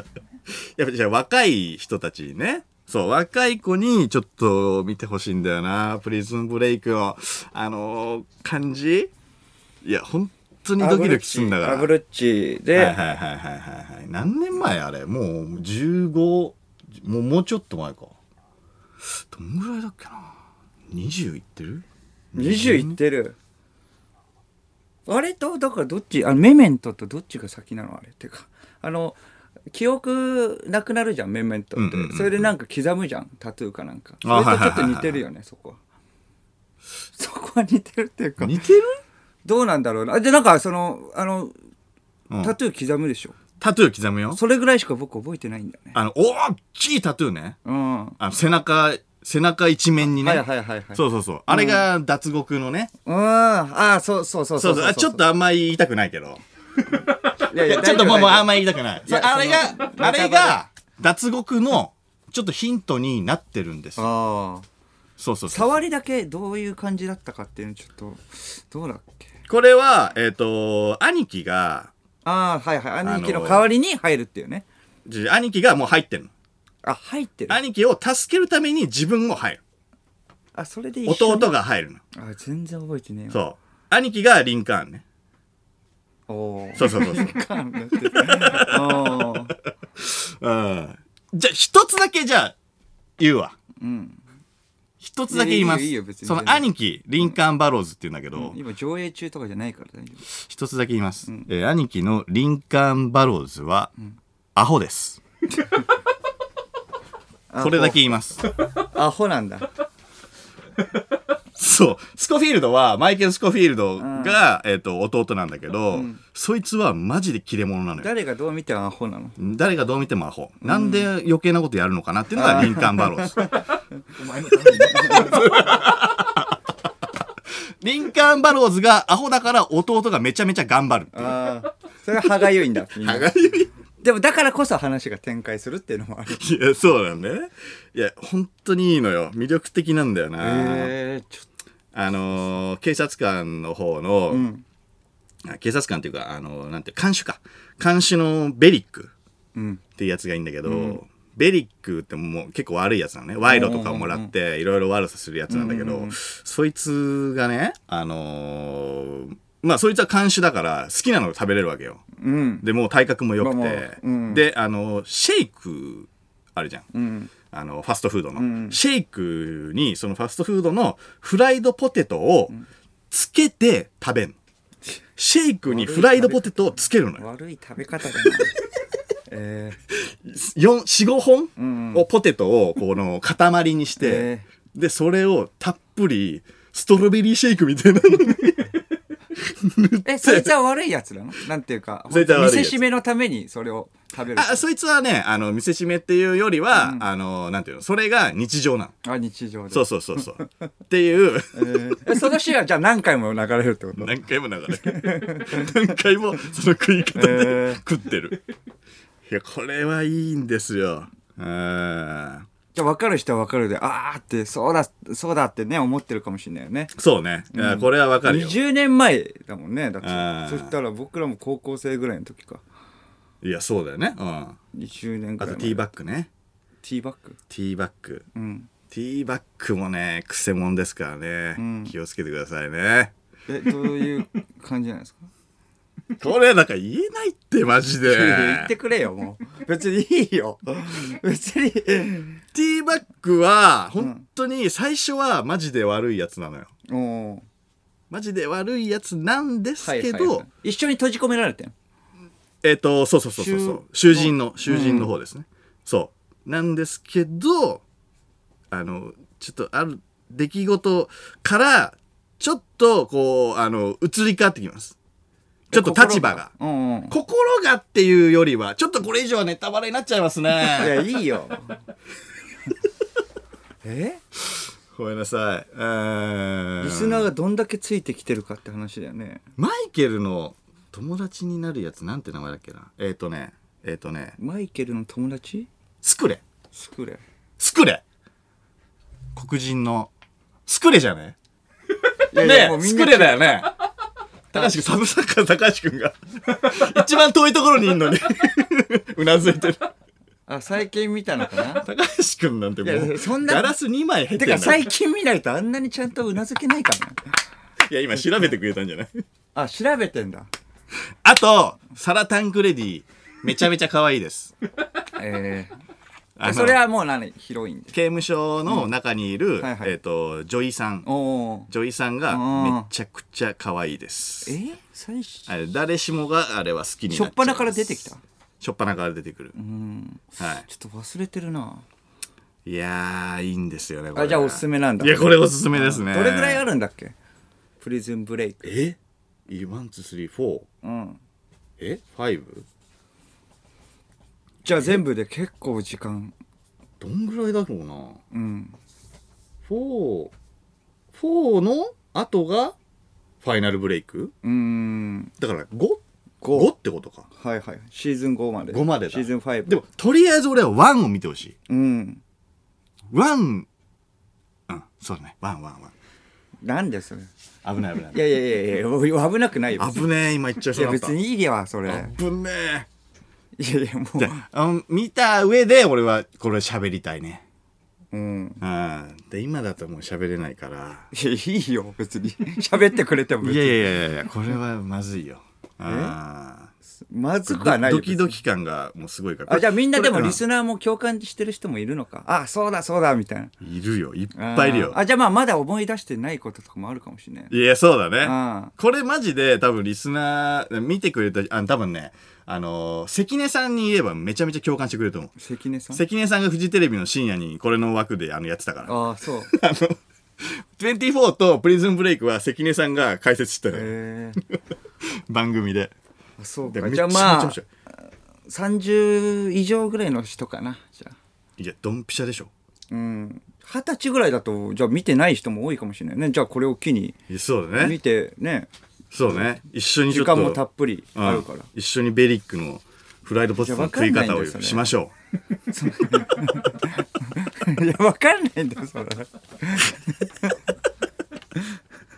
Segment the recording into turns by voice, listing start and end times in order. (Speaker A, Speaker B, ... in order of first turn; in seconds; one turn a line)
Speaker A: 0.8-9.1
Speaker A: 9.8-11.9
Speaker B: 10.8-12.9
Speaker A: 12.8-18.1
Speaker A: 19.3-20.3
Speaker A: 20.9-23.0
Speaker B: 22.4-23.4
Speaker B: 25.1-29.2
Speaker B: 29.7-35.8
Speaker A: 31.8-32.5
Speaker A: 34.2-35.2
Speaker B: 37.1-38.6
Speaker A: 38.4-39.0
Speaker B: 39.5-41.5
Speaker A: 42.3-42.5
Speaker B: 42.4-43.4
Speaker A: 43.6-44.4
Speaker B: 44.3-46.0
Speaker A: 45.9-47.6
Speaker B: 47.6-48.2
Speaker A: 48.2-52.9
Speaker B: 50.0-51.9
Speaker B: 53.1-55.2
Speaker A: 54.6-56.4
Speaker A: 57.0-64.1
Speaker B: 57.5-60.6
Speaker B: 64.0-64.7
Speaker A: 65.2-65.8
Speaker B: 65.5-69.3
Speaker A: 69.5-71.9
Speaker B: 72.2-74.7
Speaker A: 73.0-73.7
Speaker A: 75.1-76.3
Speaker B: 76.8-77.6
Speaker A: 77.5-79.6
Speaker B: 80.5-81.5
Speaker A: 81.1-82.0
Speaker B: 82.1-83.4
Speaker A: 83.3-85.0
Speaker B: 86.3-89.5
Speaker A: 86.8-87.4
Speaker A: 88.0-89.4
Speaker A: 90.0-92.5
Speaker A: 93.2-93.5
Speaker B: 93.8-94.2
Speaker A: 95.0-98.6
Speaker B: 95.3-96.7
Speaker B: 98.3-100.2
Speaker A: 100.3-103.9
Speaker A: 104.5-105.2
Speaker B: 107.5-108.0
Speaker A: 107.6-108.4
Speaker B: 108.8-109.7
Speaker A: 111.6-118.1
Speaker B: 114.0-114.4
Speaker B: 115.9-116.2
Speaker B: 118.0-119.4
Speaker A: 119.4-123.6
Speaker B: 120.6-121.1
Speaker B: 122.3-123.5
Speaker A: 124.2-126.6
Speaker B: 124.4-125.5
Speaker A: 127.8-131.5
Speaker B: 131.1-133.3
Speaker A: 133.0-133.7
Speaker B: 134.0-136.4
Speaker A: 136.3-140.9
Speaker B: 140.4-141.5
Speaker A: 141.9-144.5
Speaker B: 144.3-144.6
Speaker A: 145.4-149.1
Speaker B: 149.6-149.8
Speaker A: 150.0-162.0
Speaker B: 150.7-151.0
Speaker B: 153.5-154.3
Speaker B: 155.5-156.2
Speaker B: 162.2-162.7
Speaker A: 162.6-166.9
Speaker B: 163.4-164.4
Speaker B: 166.9-167.3
Speaker A: 167.5-172.5
Speaker B: 168.4-168.8
Speaker A: 173.1-174.4
Speaker A: 175.2-177.2
Speaker B: 175.7-176.4
Speaker B: 177.2-178.5
Speaker B: 179.3-179.8
Speaker A: 179.9-188.8
Speaker B: 181.6-182.1
Speaker B: 184.0-184.5
Speaker A: 189.4-190.5
Speaker B: 190.1-194.6
Speaker A: 192.1-192.8
Speaker A: 194.3-198.9
Speaker B: 196.7-197.1
Speaker B: 199.0-200.4
Speaker A: 199.7-202.2
Speaker B: 201.5-204.1
Speaker A: 204.0-208.4
Speaker B: 204.7-205.8
Speaker B: 207.2-207.8
Speaker A: 209.3-212.5
Speaker B: 212.7-216.9
Speaker A: 216.9-218.6
Speaker B: 217.5-222.6
Speaker A: 220.0-220.7
Speaker A: 223.4-224.6
Speaker B: 224.7-225.8
Speaker A: 225.4-226.3
Speaker B: 226.8-227.4
Speaker A: 227.5-228.2
Speaker B: 228.3-228.7
Speaker A: 228.9-233.1
Speaker B: 231.6-231.9
Speaker B: 233.5-235.3
Speaker A: 236.2-238.7
Speaker B: 238.0-242.4
Speaker A: 242.5-246.7
Speaker B: 246.9-247.4
Speaker A: 248.1-250.4
Speaker B: 249.8-251.7
Speaker A: 252.6-257.8
Speaker B: 253.4-255.1
Speaker A: 258.7-265.0
Speaker A: 265.7-266.5
Speaker B: 265.7-267.2
Speaker A: 267.1-271.0
Speaker B: 270.7-271.8
Speaker B: 273.8-274.2
Speaker A: 274.9-277.3
Speaker B: 276.8-279.4
Speaker A: 279.6-284.4
Speaker B: 284.4-285.7
Speaker A: 286.0-286.4
Speaker B: 286.7-287.2
Speaker A: 287.6-288.0
Speaker A: 289.4-290.1
Speaker A: 290.7-291.4
Speaker B: 292.3-293.6
Speaker A: 292.3-293.7
Speaker B: 294.5-294.8
Speaker A: 294.5-299.9
Speaker B: 300.5-301.9
Speaker A: 301.7-304.9
Speaker B: 302.8-303.7
Speaker B: 304.4-307.2
Speaker A: 307.9-309.2
Speaker B: 309.6-310.5
Speaker A: 311.2-314.5
Speaker B: 315.2-315.8
Speaker A: 316.4-316.8
Speaker B: 316.4-317.9
Speaker A: 317.9-321.1
Speaker B: 319.6-319.9
Speaker B: 321.1-321.7
Speaker A: 321.7-324.6
Speaker B: 322.3-322.9
Speaker B: 324.5-325.5
Speaker A: 325.5-328.1
Speaker B: 327.1-328.2
Speaker A: 328.6-329.5
Speaker B: 329.6-331.9
Speaker A: 330.4-330.7
Speaker A: 332.7-336.6
Speaker B: 334.1-337.1
Speaker B: 337.8-338.7
Speaker A: 338.6-339.0
Speaker A: 339.5-340.7
Speaker B: 340.8-341.2
Speaker A: 341.8-342.6
Speaker B: 344.6-346.3
Speaker A: 347.0-348.2
Speaker B: 348.3-348.8
Speaker A: 349.7-350.3
Speaker A: 351.1-352.8
Speaker A: 353.4-354.3
Speaker B: 354.4-355.3
Speaker A: 355.4-357.3
Speaker B: 356.4-356.7
Speaker B: 357.4-359.7
Speaker A: 358.7-361.6
Speaker B: 361.7-362.2
Speaker A: 363.1-363.7
Speaker A: 364.7-365.9
Speaker B: 366.6-367.3
Speaker A: 367.6-368.2
Speaker B: 368.1-370.1
Speaker A: 369.8-371.1
Speaker B: 370.7-372.1
Speaker A: 371.9-372.9
Speaker B: 373.6-374.4
Speaker A: 374.2-377.4
Speaker B: 378.1-378.6
Speaker A: 378.6-381.1
Speaker B: 381.1-383.8
Speaker A: 383.4-386.7
Speaker B: 385.9-386.2
Speaker B: 387.0-388.4
Speaker A: 387.5-390.4
Speaker B: 389.5-393.5
Speaker A: 393.6-395.0
Speaker B: 394.4-397.5
Speaker A: 397.5-405.3
Speaker B: 398.2-398.7
Speaker B: 405.4-406.0
Speaker A: 405.9-413.9
Speaker B: 408.9-409.5
Speaker B: 413.7-414.4
Speaker A: 415.3-415.9
Speaker B: 416.4-417.6
Speaker A: 416.7-417.6
Speaker B: 418.5-421.2
Speaker A: 421.6-422.5
Speaker B: 422.9-427.2
Speaker A: 427.3-428.0
Speaker B: 427.8-428.7
Speaker A: 429.1-430.6
Speaker B: 430.1-431.7
Speaker A: 431.1-435.1
Speaker B: 433.6-434.8
Speaker B: 435.7-440.6